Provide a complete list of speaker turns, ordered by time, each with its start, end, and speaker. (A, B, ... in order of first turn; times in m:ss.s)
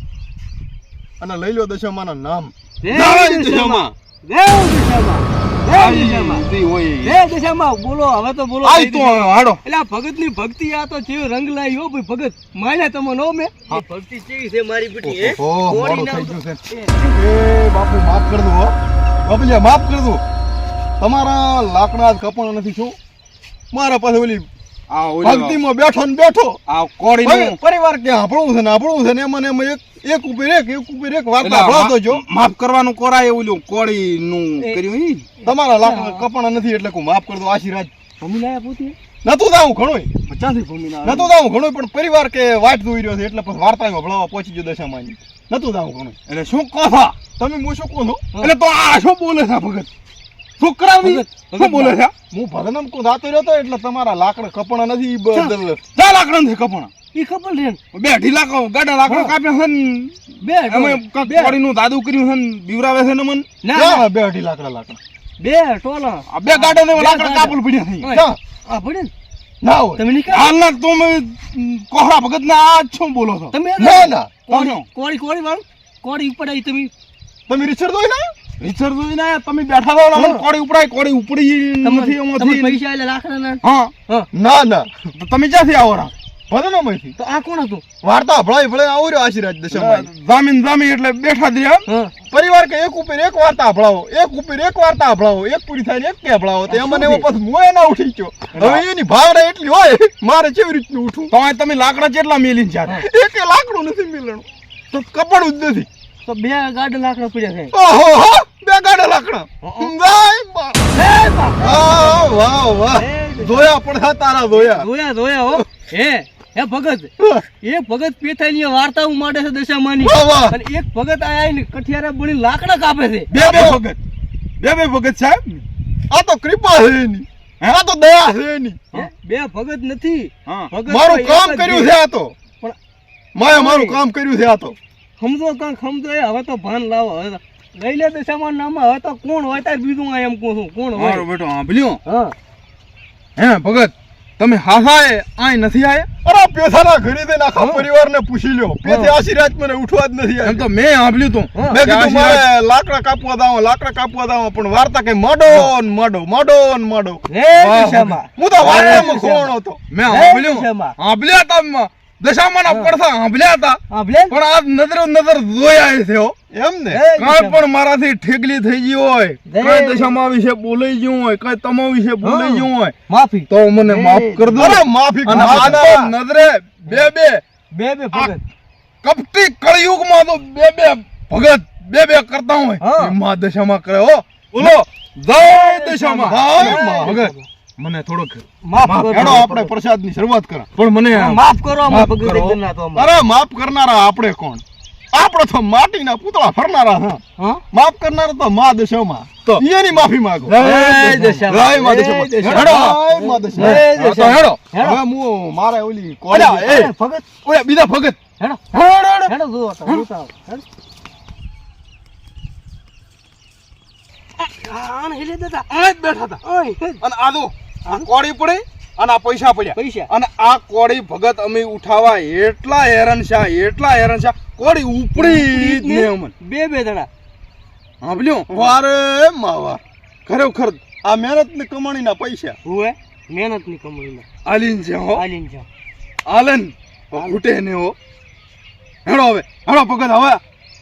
0:01.2-0:03.9 A
0:02.8-0:06.4 B
0:05.6-0:07.2 C
0:07.0-0:16.9 B
0:08.6-0:09.6 C
0:15.0-0:18.7 A
0:19.2-0:20.2 A
0:21.0-0:23.0 A
0:23.7-0:24.5 A
0:24.9-0:25.6 C
0:25.2-0:26.6 A
0:26.7-0:27.6 C
0:27.2-0:32.2 A
0:31.4-0:35.3 C
0:35.4-0:36.2 B
0:35.4-0:37.9 A
0:38.2-0:39.0 B
0:39.2-0:40.1 A
0:40.3-0:41.3 B
0:41.0-0:46.2 A
0:46.2-0:47.2 C
0:47.3-0:48.3 A
0:48.4-0:49.9 C
0:50.6-0:52.1 C
0:51.0-0:52.0 B
0:52.3-0:55.8 A
0:55.9-0:56.9 C
0:57.1-0:57.8 B
0:57.9-1:03.5 C
0:59.0-0:59.3 B
1:00.4-1:01.6 B
1:03.6-1:04.0 B
1:03.7-1:05.0 A
1:05.4-1:09.1 B
1:06.3-1:08.1 C
1:08.1-1:08.4 A
1:09.6-1:10.0 A
1:10.0-1:10.5 B
1:10.3-1:13.6 C
1:13.5-1:16.9 B
1:13.8-1:14.3 A
1:14.5-1:14.8 C
1:17.5-1:18.3 A
1:18.6-1:22.8 C
1:20.1-1:20.4 B
1:21.8-1:24.3 B
1:23.6-1:23.9 C
1:24.3-1:24.9 A
1:25.1-1:26.1 C
1:26.5-1:27.1 A
1:27.2-1:27.8 B
1:28.0-1:30.1 A
1:29.7-1:31.8 C
1:32.3-1:41.3 A
1:36.7-1:37.3 B
1:41.3-1:43.0 C
1:43.0-1:45.9 A
1:46.2-1:47.7 B
1:47.7-1:50.8 A
1:49.6-1:49.9 B
1:50.9-1:52.2 B
1:51.6-1:54.9 A
1:52.9-1:53.7 B
1:54.5-1:57.1 B
1:57.2-1:57.4 A
1:57.6-2:03.3 B
2:00.0-2:00.6 A
2:03.3-2:04.0 A
2:03.3-2:03.8 C
2:04.6-2:05.6 C
2:06.1-2:08.8 A
2:08.9-2:11.9 B
2:10.4-2:10.7 C
2:10.9-2:12.3 A
2:13.3-2:14.8 A
2:13.4-2:14.0 B
2:15.2-2:21.2 B
2:21.0-2:22.0 C
2:22.0-2:22.3 B
2:23.4-2:26.1 C
2:26.2-2:30.6 A
2:27.6-2:27.8 B
2:28.8-2:29.1 B
2:30.4-2:32.5 C
2:31.5-2:31.8 B
2:31.7-2:37.2 A
2:37.3-2:39.5 B
2:37.5-2:39.1 C
2:38.4-2:39.8 A
2:39.9-2:46.3 C
2:40.1-2:41.0 B
2:42.7-2:42.9 B
2:43.9-2:44.4 B
2:46.5-2:47.0 A
2:46.9-2:47.6 B
2:47.2-2:52.9 C
2:49.5-2:50.2 B
2:52.2-2:54.7 B
2:53.5-2:57.4 C
2:54.6-2:56.0 A
2:55.3-2:56.1 B
2:57.7-2:58.4 B
2:59.0-3:09.5 C
3:02.8-3:03.1 B
3:05.3-3:07.4 B
3:06.2-3:07.2 A
3:08.6-3:09.7 B
3:09.1-3:10.7 A
3:10.7-3:11.4 C
3:11.1-3:13.1 B
3:11.8-3:23.9 A
3:20.4-3:21.6 C
3:20.6-3:25.0 B
3:22.4-3:23.0 C
3:23.5-3:24.6 C
3:24.8-3:26.9 A
3:26.3-3:27.3 B
3:26.3-3:26.8 C
3:27.4-3:28.2 C
3:28.4-3:30.6 B
3:28.7-3:29.3 C
3:34.4-3:35.6 B
3:35.7-3:36.4 C
3:36.4-3:37.0 B
3:37.0-3:46.3 C
3:39.7-3:40.1 B
3:45.1-3:47.1 B
3:48.0-3:48.7 C
3:48.5-3:49.8 A
3:50.2-3:50.9 C
3:51.0-3:52.6 A
3:52.6-3:54.2 B
3:54.4-3:55.2 C
3:55.1-3:55.7 B
3:56.2-3:57.9 C
3:59.0-4:00.4 C